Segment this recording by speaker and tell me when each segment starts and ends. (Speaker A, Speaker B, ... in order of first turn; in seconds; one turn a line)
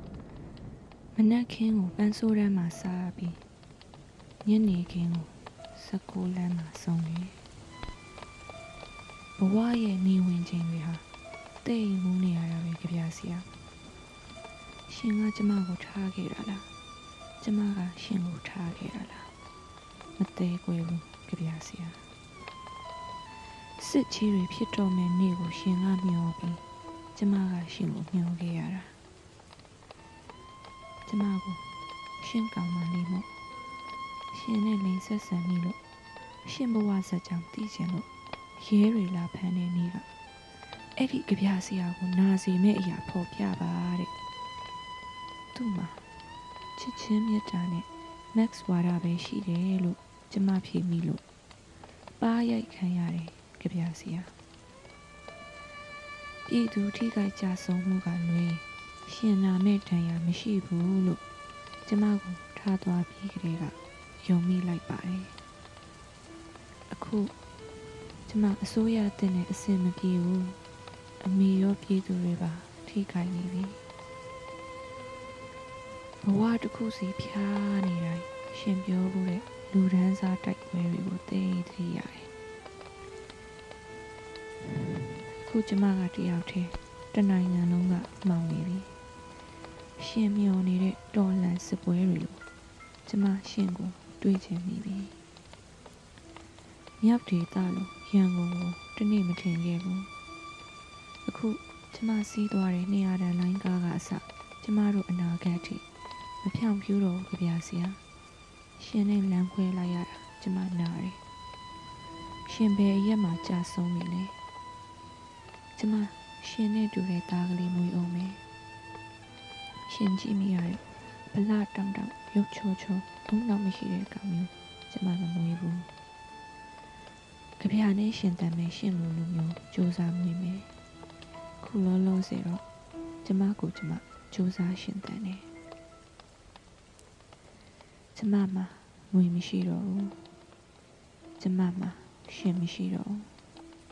Speaker A: 1.1-3.4
Speaker A: 4.4-7.4
Speaker A: 9.4-11.0
Speaker A: 11.6-13.5
Speaker A: 14.9-16.7
Speaker A: 17.4-19.3
Speaker A: 20.1-22.0
Speaker A: 23.8-26.6
Speaker A: 27.1-28.9
Speaker A: 31.1-33.3
Speaker A: 34.3-35.8
Speaker A: 36.4-40.1
Speaker A: 40.9-44.1
Speaker A: 45.5-46.0
Speaker A: 46.8-51.2
Speaker A: 52.2-54.3
Speaker A: 56.5-61.2
Speaker A: 61.8-65.4
Speaker A: 66.9-67.3
Speaker A: 68.2-70.6
Speaker A: 71.2-73.8
Speaker A: 76.2-82.3
Speaker A: 84.6-89.0
Speaker A: 90.0-92.4
Speaker A: 93.0-95.2
Speaker A: 97.0-100.1
Speaker A: 101.2-105.8
Speaker A: 106.4-108.0
Speaker A: 108.8-111.2
Speaker A: 112.4-114.4
Speaker A: 115.7-118.4
Speaker A: 119.8-125.9
Speaker A: 127.6-130.7
Speaker A: 131.6-132.6
Speaker A: 133.2-135.5
Speaker A: 138.1-140.3
Speaker A: 141.4-143.3